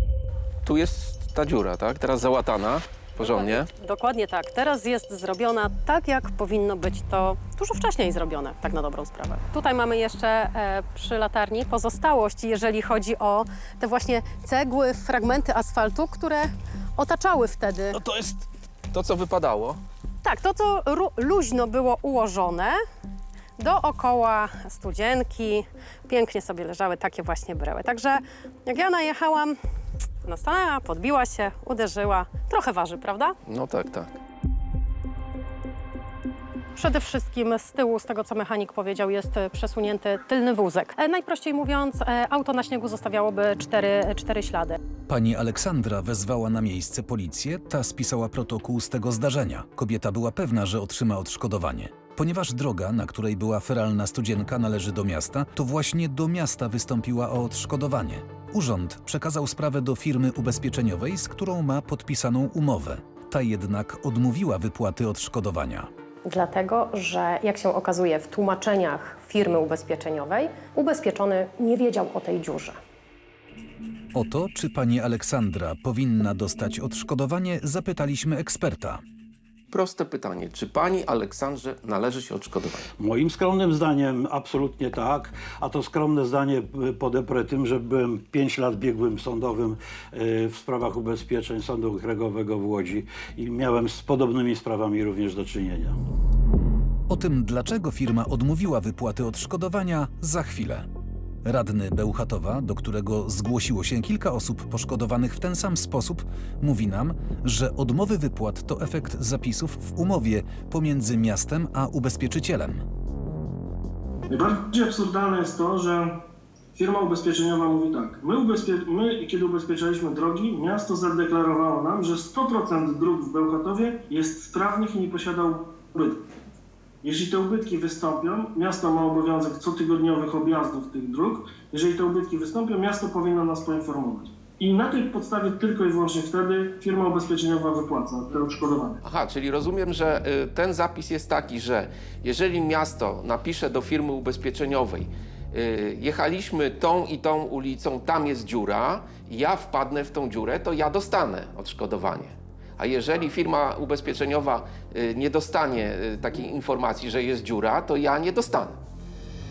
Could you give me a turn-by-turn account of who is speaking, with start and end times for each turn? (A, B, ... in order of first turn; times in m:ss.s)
0:00.6-0:03.7 A
0:03.2-0:18.0 B
0:18.9-0:19.8 A
0:20.2-0:22.8 B
0:23.6-0:29.6 B
0:30.2-0:33.4 B
0:33.5-0:34.1 A
0:36.8-0:44.8 B
0:45.1-1:05.9 C
1:06.2-1:12.8 B
1:14.2-1:19.0 C
1:19.7-1:22.9 A
1:23.0-1:36.0 D
1:37.1-1:40.9 C
1:41.4-1:52.8 C
1:54.3-1:56.2 E
1:56.8-2:06.2 E
2:07.0-2:19.0 E
2:19.0-2:38.8 A